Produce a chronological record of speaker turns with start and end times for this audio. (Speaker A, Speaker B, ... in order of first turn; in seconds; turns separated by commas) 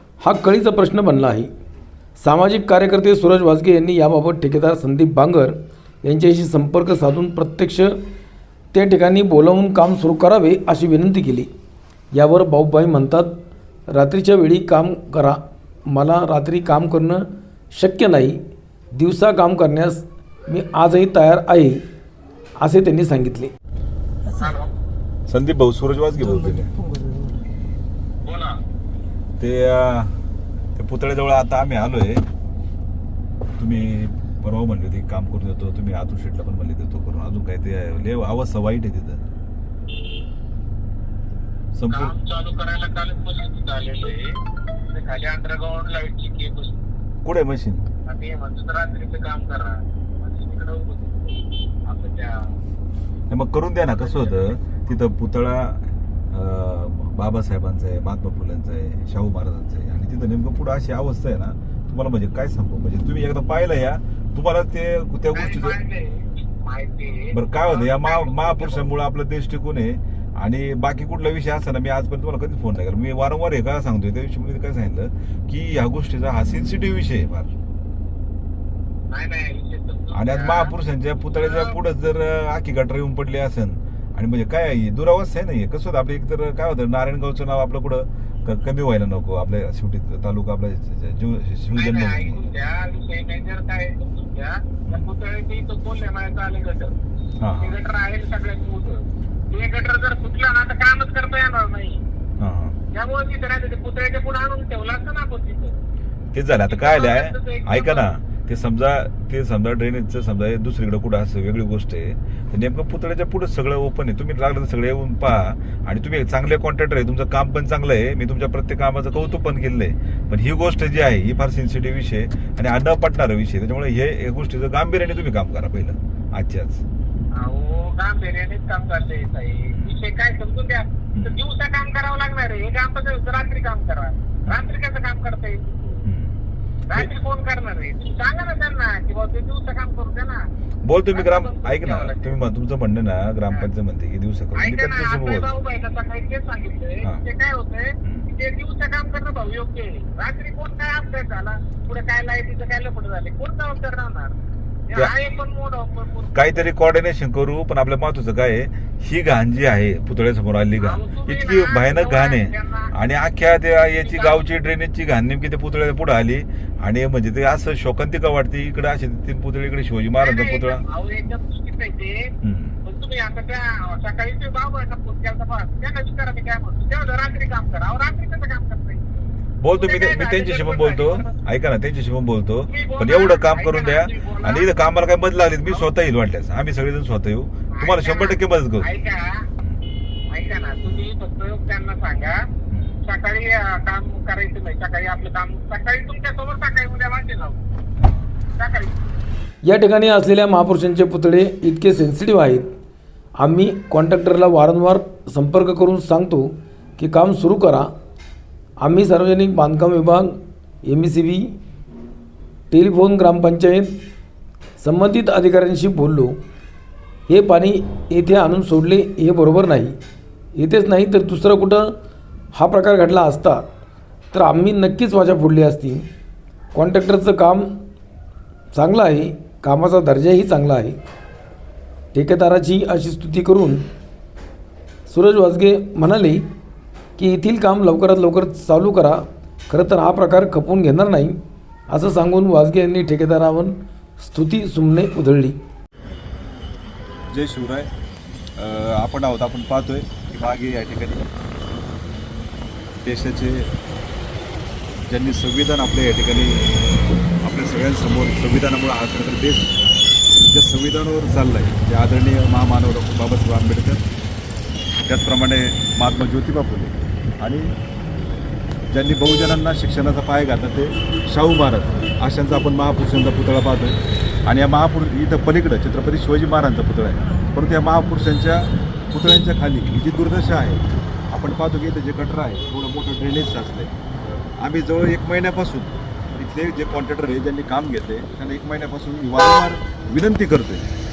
Speaker A: 0.2-1.5, Speaker A: 2.2-7.9, Speaker A: 8.7-11.5, Speaker A: 12.1-13.3, Speaker A: 13.9-18.4, Speaker A: 18.9-21.8, Speaker A: 22.6-23.5, Speaker B: 24.3-24.7, Speaker C: 25.3-26.9, Speaker B: 28.2-28.6, Speaker C: 29.4-30.1, Speaker C: 30.8-32.2, Speaker C: 33.6-39.2, Speaker C: 41.8-42.1, Speaker B: 41.9-44.3, Speaker B: 44.9-46.8, Speaker C: 47.2-47.9, Speaker B: 48.1-52.5, Speaker C: 53.3-65.8, Speaker B: 53.9-54.9, Speaker B: 65.3-68.9, Speaker C: 67.3-77.5, Speaker B: 79.1-80.7, Speaker C: 80.1-92.5, Speaker B: 81.2-81.8, Speaker B: 91.8-96.9, Speaker C: 94.9-95.1, Speaker C: 97.4-97.8, Speaker B: 97.6-102.0, Speaker C: 102.4-102.8, Speaker B: 102.9-105.8, Speaker C: 106.3-126.8, Speaker B: 106.7-108.1, Speaker B: 127.4-136.0, Speaker C: 129.7-130.0, Speaker C: 131.1-131.4, Speaker C: 134.5-134.7, Speaker C: 136.1-136.3, Speaker B: 136.9-140.4, Speaker C: 140.8-145.5, Speaker B: 141.1-142.4, Speaker B: 144.6-154.4, Speaker B: 154.9-156.7, Speaker C: 156.3-170.8, Speaker B: 160.8-162.9, Speaker B: 164.0-164.6, Speaker B: 170.2-172.3, Speaker C: 172.4-172.8, Speaker B: 172.8-181.3, Speaker C: 179.6-188.9, Speaker B: 182.7-184.7, Speaker B: 187.7-189.4, Speaker B: 190.3-192.4, Speaker C: 192.7-193.0, Speaker B: 193.1-197.6, Speaker C: 198.0-198.3, Speaker B: 198.6-199.0, Speaker A: 199.7-202.7, Speaker A: 203.4-207.9, Speaker A: 208.8-211.5, Speaker A: 212.7-213.9, Speaker A: 214.8-216.3, Speaker A: 217.3-219.9, Speaker A: 220.6-221.9, Speaker A: 222.5-223.6, Speaker A: 224.3-226.0, Speaker A: 226.7-227.8, Speaker A: 228.7-231.0, Speaker A: 232.1-233.8, Speaker A: 235.1-236.4, Speaker A: 237.2-241.4, Speaker A: 241.9-245.6, Speaker C: 247.3-247.9, Speaker C: 248.6-251.3, Speaker C: 253.0-253.7, Speaker C: 255.1-256.6, Speaker C: 257.4-259.8, Speaker C: 260.5-264.0, Speaker C: 265.1-267.7, Speaker C: 268.9-283.9, Speaker C: 284.6-290.9